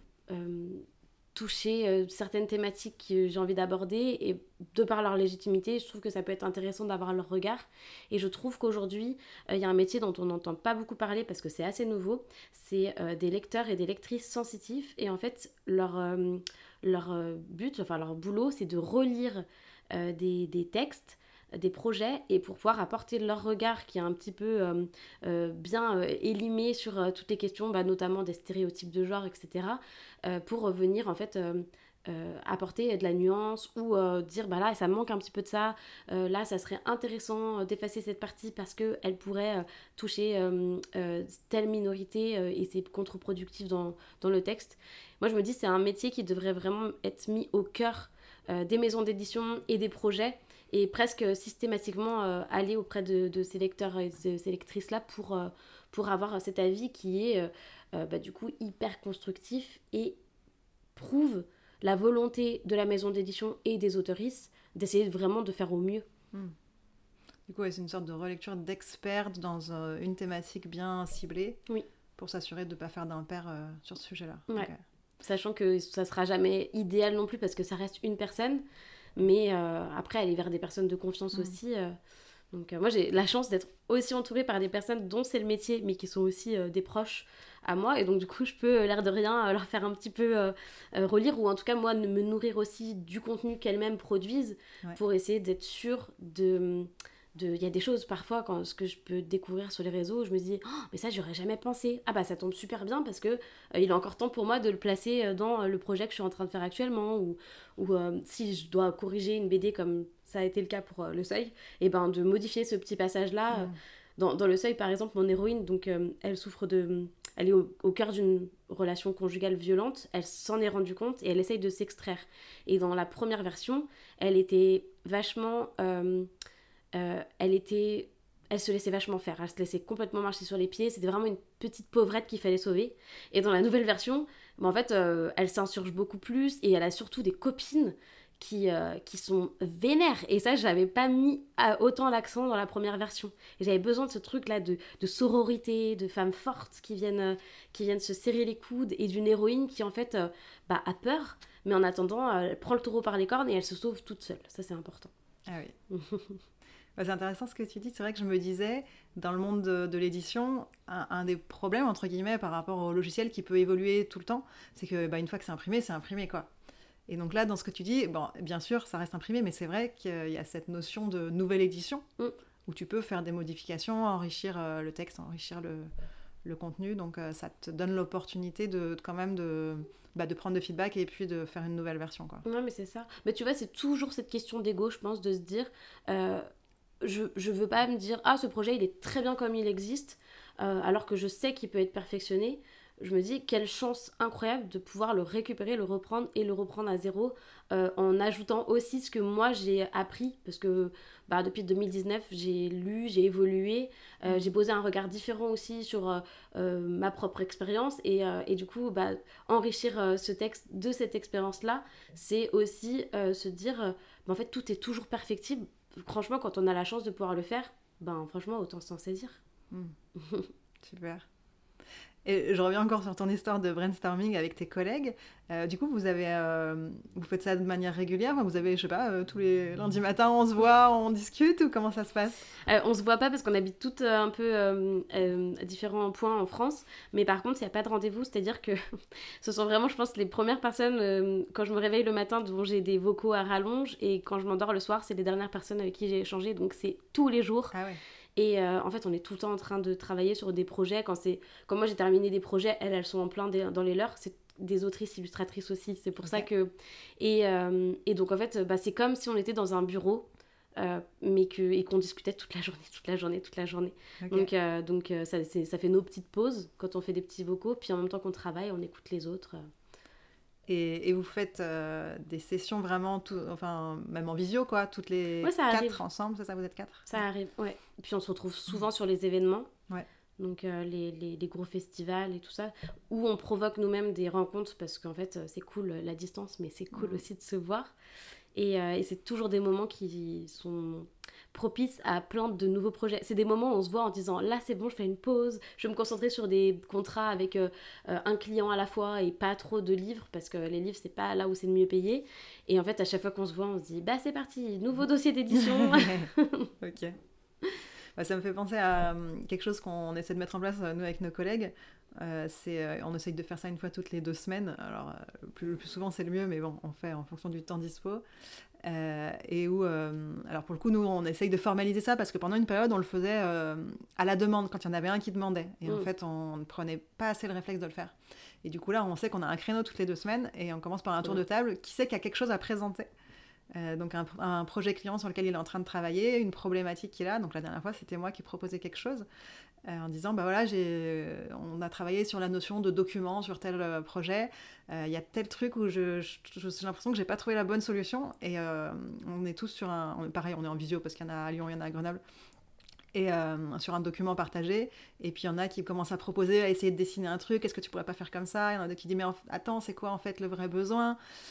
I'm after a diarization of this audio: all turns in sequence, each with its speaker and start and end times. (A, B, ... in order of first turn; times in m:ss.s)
0:00.3-1:00.2 A
1:00.9-1:06.1 A
1:07.5-1:11.6 B
1:12.2-1:14.8 B
1:15.2-1:18.6 A
1:19.2-1:22.0 A
1:22.5-2:06.3 A
2:06.9-2:35.1 A
2:35.5-2:35.7 B
2:35.9-2:36.4 A
2:37.0-2:46.5 B
2:47.1-2:52.0 B
2:52.7-2:55.9 B
2:56.4-3:02.4 B
3:02.4-3:06.4 A
3:07.0-3:39.4 A
3:40.2-3:40.5 A
3:40.8-3:41.2 B
3:42.2-3:52.5 B
3:52.6-3:58.8 A
3:59.4-4:07.8 A
4:07.7-4:08.0 B
4:08.4-4:29.7 A
4:24.2-4:24.5 B
4:30.7-4:37.2 B
4:35.4-4:36.0 A
4:37.1-4:39.7 A
4:40.4-4:47.9 A
4:46.9-4:47.2 B
4:48.5-5:06.7 A
5:05.5-5:06.3 B
5:06.8-5:07.2 B
5:08.2-5:18.2 B
5:18.8-5:33.1 B
5:33.7-5:39.2 B
5:39.8-5:52.2 B
5:53.1-6:01.2 B